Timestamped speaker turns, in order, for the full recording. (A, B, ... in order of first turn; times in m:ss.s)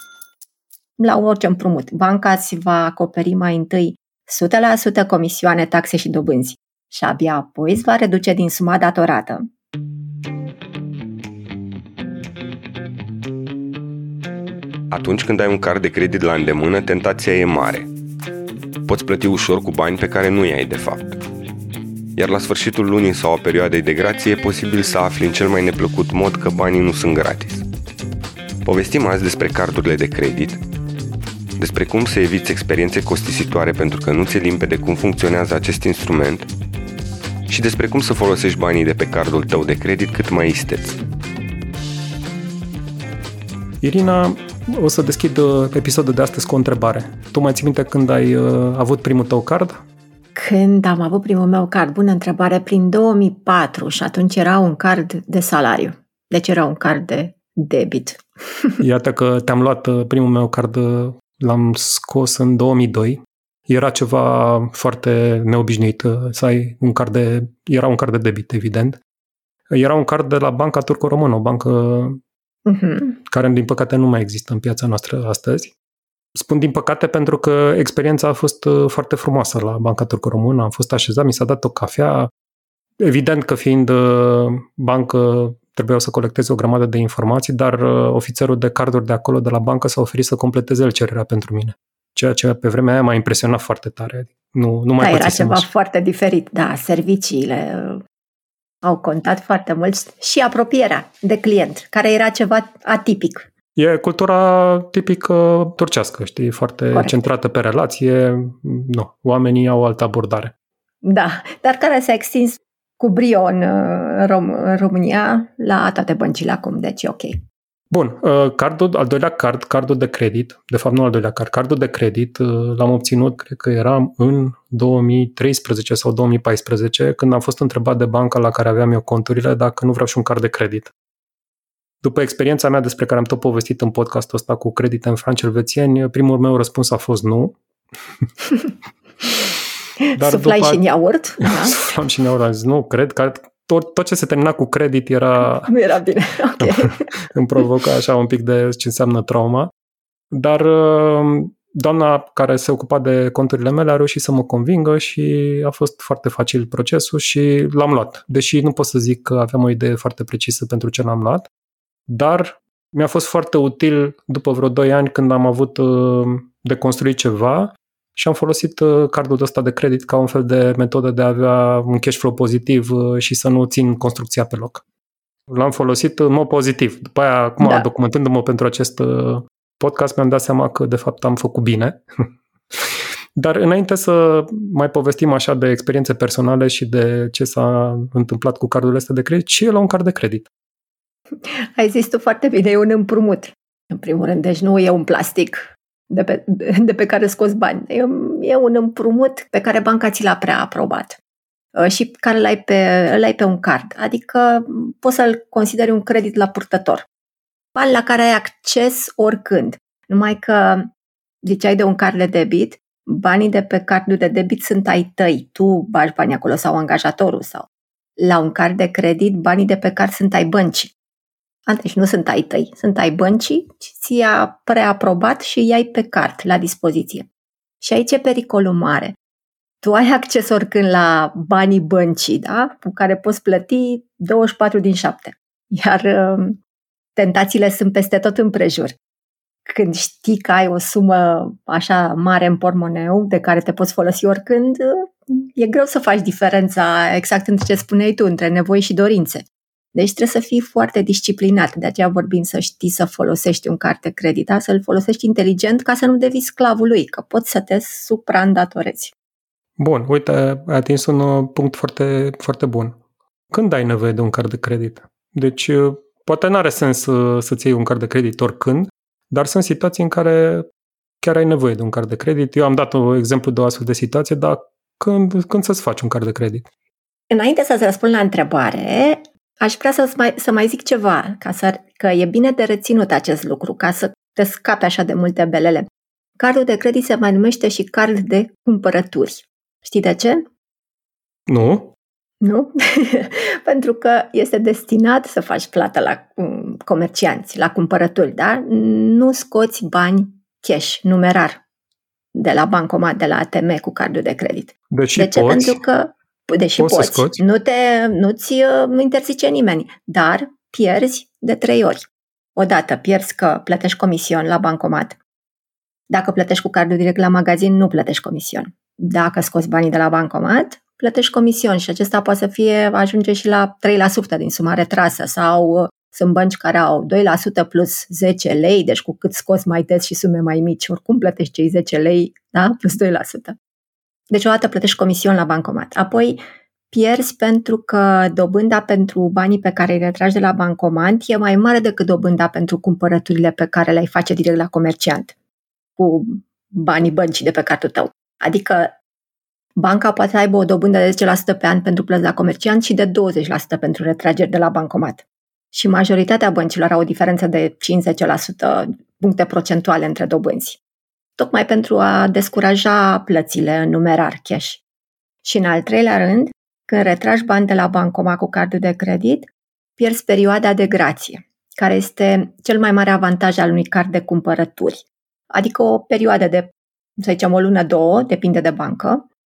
0:01.0-0:09.5 A
0:14.9-0:17.9 B
0:18.9-0:21.2 B
0:22.2-0:27.7 B
0:28.6-0:30.6 B
0:31.6-0:36.5 B
0:37.5-0:41.0 B
0:43.8-0:49.8 C
0:50.4-0:58.8 A
0:58.8-1:09.0 C
1:09.7-1:12.2 C
1:12.7-1:13.2 A
1:13.3-1:15.7 C
1:16.4-1:22.3 C
1:23.0-1:35.7 C
1:35.0-1:38.0 A
1:38.8-1:43.5 A
1:43.8-1:50.5 C
1:46.9-1:47.2 A
1:51.0-1:57.4 A
1:57.9-2:10.9 C
2:12.0-2:17.6 C
2:20.0-2:21.8 A
2:20.2-2:20.8 C
2:21.4-2:25.7 C
2:25.5-2:27.1 A
2:26.6-2:29.7 C
2:30.3-2:41.5 C
2:42.1-2:54.8 C
2:55.5-3:10.5 C
2:57.6-2:57.9 A
3:11.4-3:21.2 A
3:21.8-3:27.0 A
3:27.8-3:30.9 A
3:31.4-3:37.7 A
3:38.2-3:40.9 A
3:41.7-3:47.3 A
3:47.8-3:49.2 A
3:49.8-3:56.6 A
3:57.2-3:59.0 A
3:59.7-4:19.1 A
4:19.8-4:23.0 C
4:23.5-4:30.7 C
4:31.2-4:36.7 C
4:37.3-4:45.9 A
4:46.4-4:50.4 A
4:51.5-4:51.9 C
4:52.4-5:01.6 A
5:02.4-5:15.2 A
5:04.9-5:05.8 C
5:06.8-5:07.4 C
5:16.1-5:33.6 A
5:34.3-5:45.3 A
5:46.0-5:48.9 A
5:49.8-6:00.8 A
6:01.4-6:04.8 A
6:05.4-6:19.3 A